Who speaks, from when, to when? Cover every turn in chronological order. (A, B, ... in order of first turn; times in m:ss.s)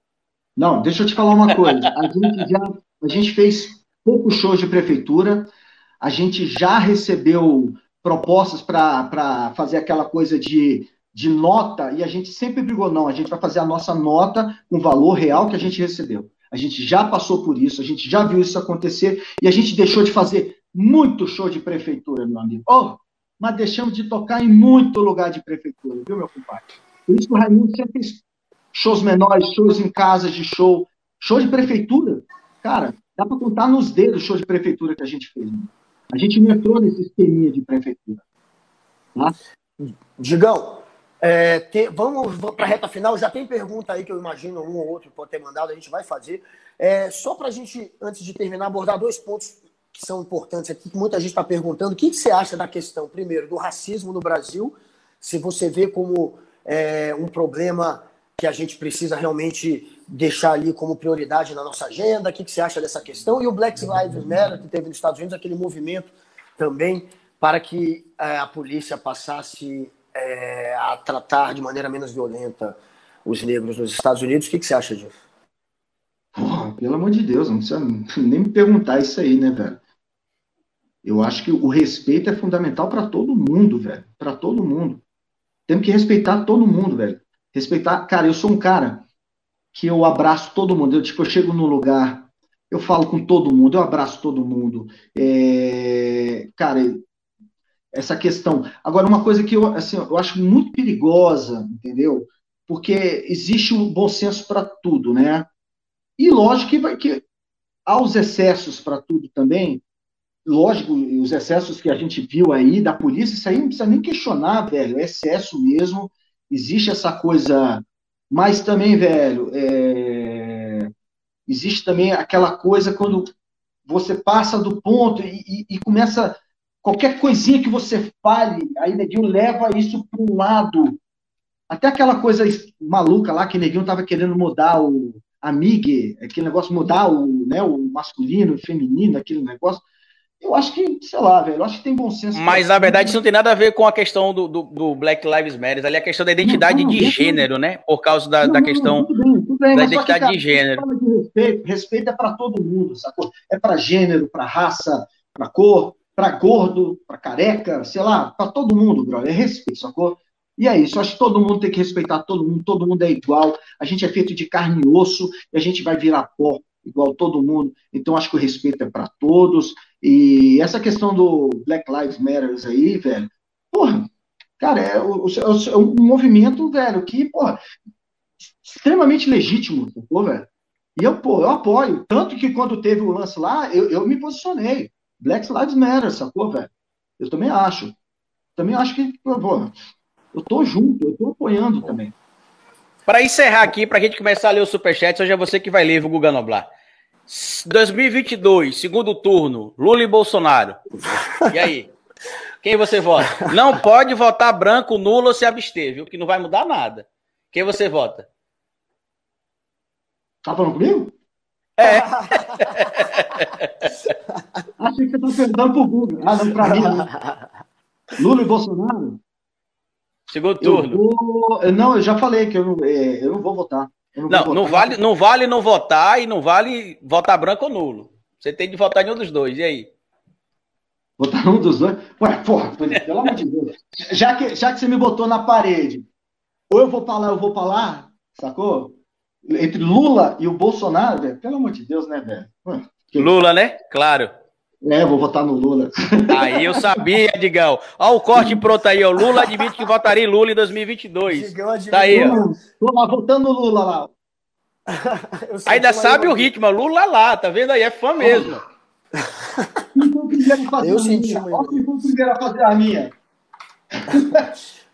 0:00.6-0:38.2 A
0:39.8-1:15.2 B
1:16.4-1:19.8 A
1:21.0-1:25.0 A
1:25.7-1:29.0 A
1:29.7-1:37.0 A
1:37.9-1:45.5 A
1:46.2-1:47.2 A
1:47.9-1:49.8 A
1:50.5-2:00.9 A
2:01.5-2:03.3 A
2:03.9-2:11.0 A
2:11.7-2:19.8 A
2:20.4-2:23.2 A
2:22.3-2:29.1 C
2:26.4-2:27.5 A
2:28.4-2:54.1 A
2:29.7-2:30.8 C
2:54.6-2:57.6 A
2:58.6-3:08.0 A
3:08.6-3:09.7 A
3:10.3-3:12.1 A
3:13.1-3:16.7 C
3:17.3-3:20.9 C
3:21.5-3:21.9 C
3:22.6-3:28.3 C
3:30.4-3:31.1 A
3:31.8-3:34.1 C
3:31.9-3:32.3 B
3:34.8-3:37.1 A
3:36.6-3:37.4 B
3:38.2-3:39.2 A
3:40.3-3:41.0 C
3:40.6-3:45.0 A
3:44.3-3:49.9 C
3:51.2-3:56.1 A
3:56.7-3:59.0 A
3:59.5-4:03.3 A
4:03.2-4:04.3 C
4:04.8-4:07.0 A
4:06.3-4:12.4 C
4:08.4-4:08.7 A
4:11.3-4:12.5 B
4:12.1-4:14.1 A
4:14.9-4:16.5 B
4:15.7-4:18.6 C
4:18.2-4:18.6 A
4:20.0-4:23.1 A
4:20.8-4:21.9 B
4:24.1-4:24.4 A